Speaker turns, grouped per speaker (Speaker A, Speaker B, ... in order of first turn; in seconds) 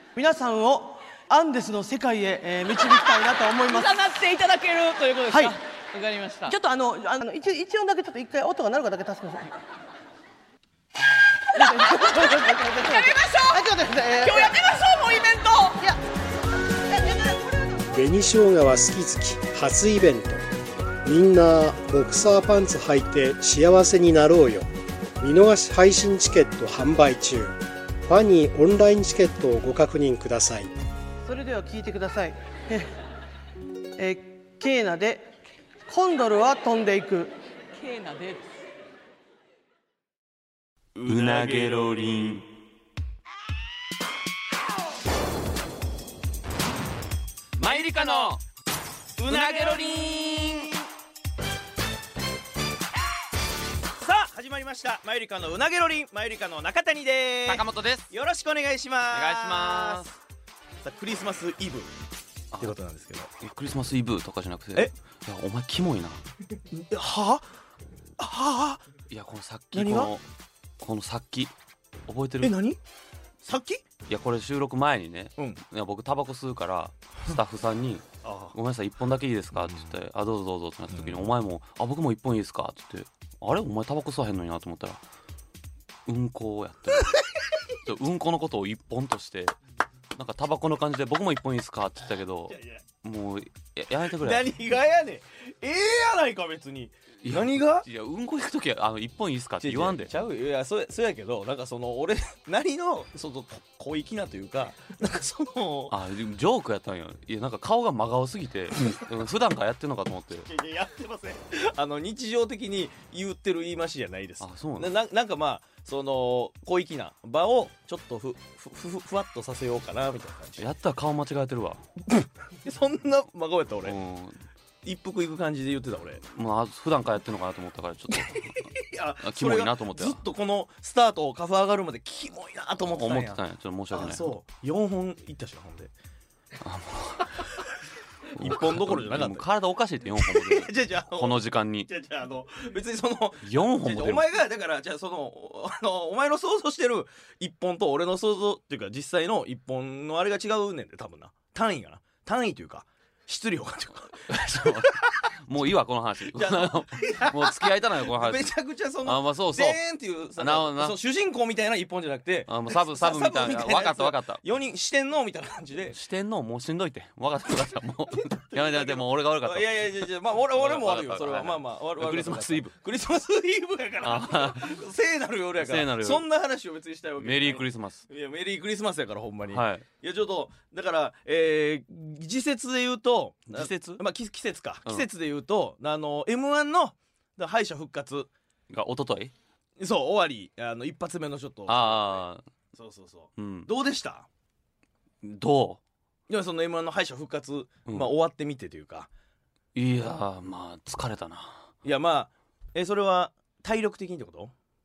Speaker A: 0.1-4.0, 5.3-5.6, 6.5-9.5, 11.5-14.6, 16.9-17.4, 31.2-32.9, 34.0-35.3, 35.9-37.3
Speaker B: 3.6-6.5, 11.6-15.8, 37.8-38.5
Speaker C: 17.9-20.4, 21.0-24.7, 25.2-30.7
Speaker D: 41.0-41.8, 47.6-48.3, 49.2-50.8, 54.0-60.1, 60.8-61.9, 62.6-63.3, 66.7-67.5, 68.2-68.8, 69.7-70.1, 72.4-72.8, 73.4-73.8, 78.2-78.5, 79.6-79.9, 81.0-81.2, 92.5-92.8, 94.2-97.8, 99.6-105.9, 110.5-120.7, 122.1-124.0, 124.8-126.2, 128.1-133.4, 133.9-135.9, 138.4-139.4, 140.1-155.3, 156.3-166.0, 168.2-188.3, 189.8-194.3, 196.3-199.1, 201.8-204.5
Speaker E: 41.0-42.5, 47.6-48.4, 49.2-50.7, 57.5-58.1, 59.1-60.1, 63.4-66.2, 69.1-70.2, 70.8-71.5, 72.1-72.5, 74.1-85.0, 86.1-87.2, 87.8-89.5, 90.2-94.5, 97.2-100.1, 105.9-110.5, 114.4-114.9, 120.6-121.8, 123.8-124.4, 126.3-128.7, 129.2-130.2, 132.9-134.3, 136.6-137.5, 138.4-141.9, 143.4-144.2, 154.3-158.5, 159.0-159.8, 160.3-161.0, 162.5-164.4, 165.9-170.0, 170.5-172.7, 174.0-174.8, 175.6-176.2, 177.2-178.0, 179.5-179.8, 183.5-184.0, 188.7-189.3, 191.7-192.4, 193.4-193.7, 195.2-195.8, 199.7-201.7